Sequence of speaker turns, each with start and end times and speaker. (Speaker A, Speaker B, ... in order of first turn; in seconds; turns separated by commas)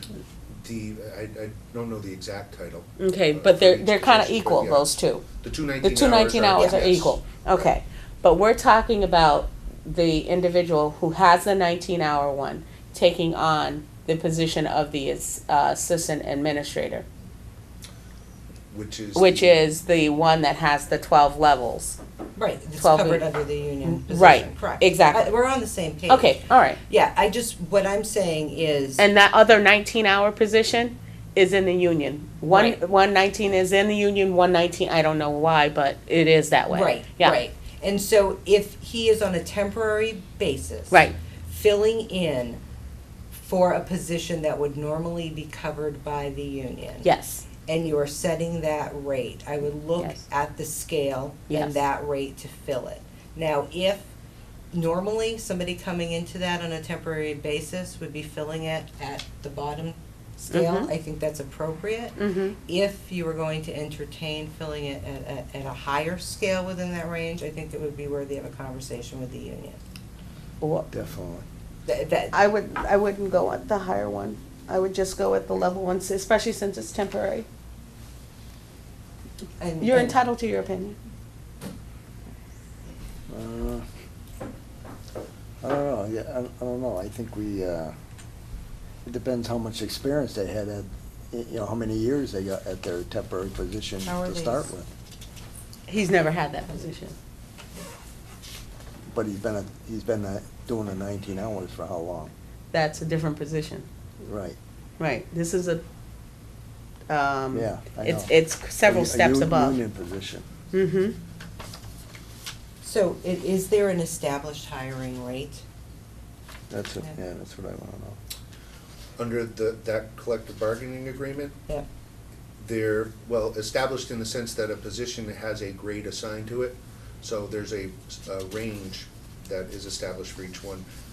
Speaker A: 0.6-7.2, Speaker B: 3.0-5.2, Speaker B: 5.8-17.1, Speaker C: 6.6-6.9, Speaker A: 18.7-19.6, Speaker B: 19.1-22.0, Speaker C: 22.4-29.1, Speaker B: 22.8-23.3, Speaker B: 23.8-25.3, Speaker B: 26.1-26.8, Speaker B: 29.0-37.4, Speaker C: 32.5-32.8, Speaker C: 36.7-42.6, Speaker B: 40.9-41.2, Speaker C: 43.3-47.1, Speaker B: 47.0-47.5, Speaker C: 47.7-54.1, Speaker B: 51.5-51.8, Speaker C: 54.7-69.8, Speaker B: 60.5-60.9, Speaker B: 62.2-62.6, Speaker B: 70.6-70.9, Speaker D: 70.9-71.5, Speaker C: 71.9-72.4, Speaker B: 72.3-77.5, Speaker C: 79.6-80.2, Speaker B: 79.8-81.0, Speaker D: 83.3-83.9, Speaker D: 85.6-87.9, Speaker D: 89.0-94.9, Speaker C: 94.0-94.7, Speaker B: 95.9-97.2, Speaker D: 99.1-102.3, Speaker B: 102.7-103.9, Speaker D: 104.2-104.6, Speaker B: 105.0-105.8, Speaker B: 107.1-109.8, Speaker D: 107.5-110.5, Speaker B: 110.7-111.2, Speaker C: 112.8-115.6, Speaker D: 116.7-118.2, Speaker A: 119.2-121.6, Speaker A: 122.6-130.9